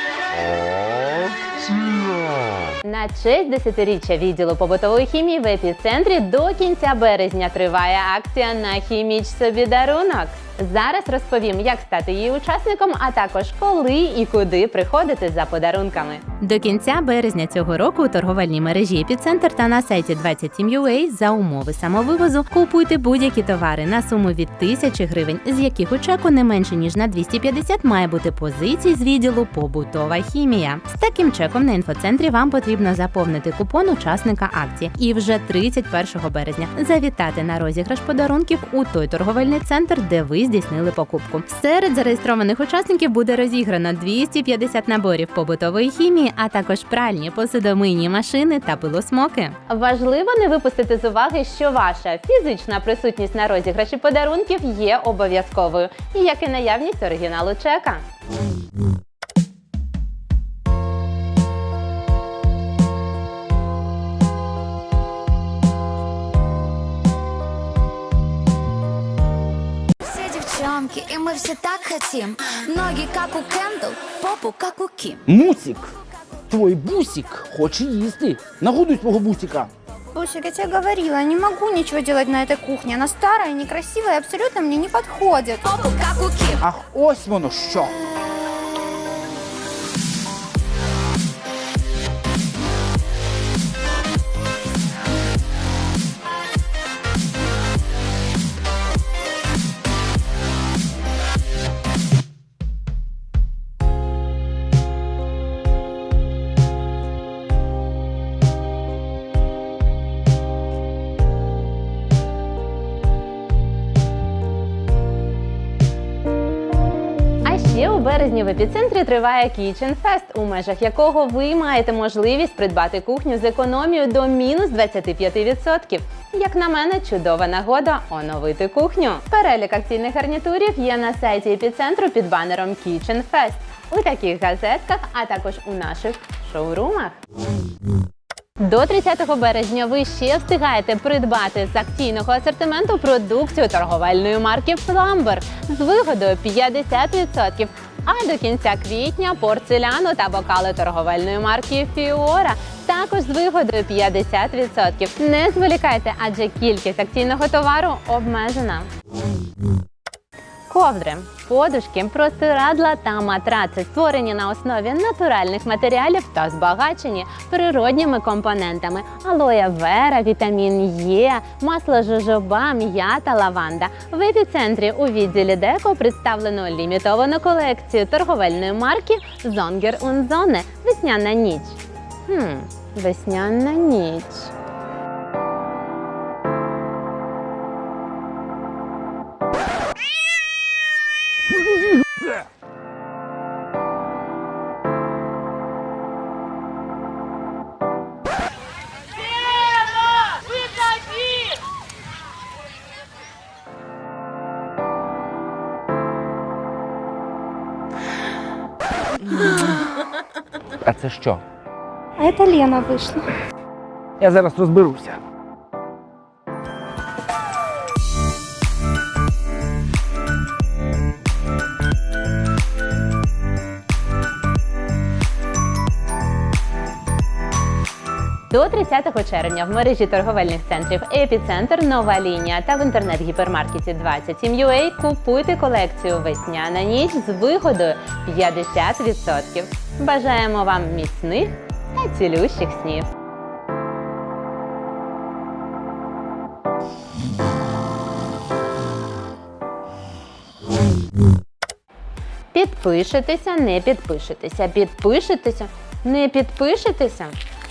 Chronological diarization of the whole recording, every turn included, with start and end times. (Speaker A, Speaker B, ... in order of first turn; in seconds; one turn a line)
Speaker A: 2.8-58.0
Speaker B: 70.0-75.2
Speaker C: 75.3-75.9
Speaker C: 76.5-79.7
Speaker D: 80.1-85.7
Speaker B: 85.6-86.6
Speaker C: 86.6-88.0
Speaker A: 117.4-137.2
Speaker A: 138.6-158.9
Speaker A: 160.7-184.5
Speaker C: 210.8-211.4
Speaker D: 212.2-213.3
Speaker C: 214.2-215.2
Speaker A: 228.5-243.1
Speaker A: 252.5-257.4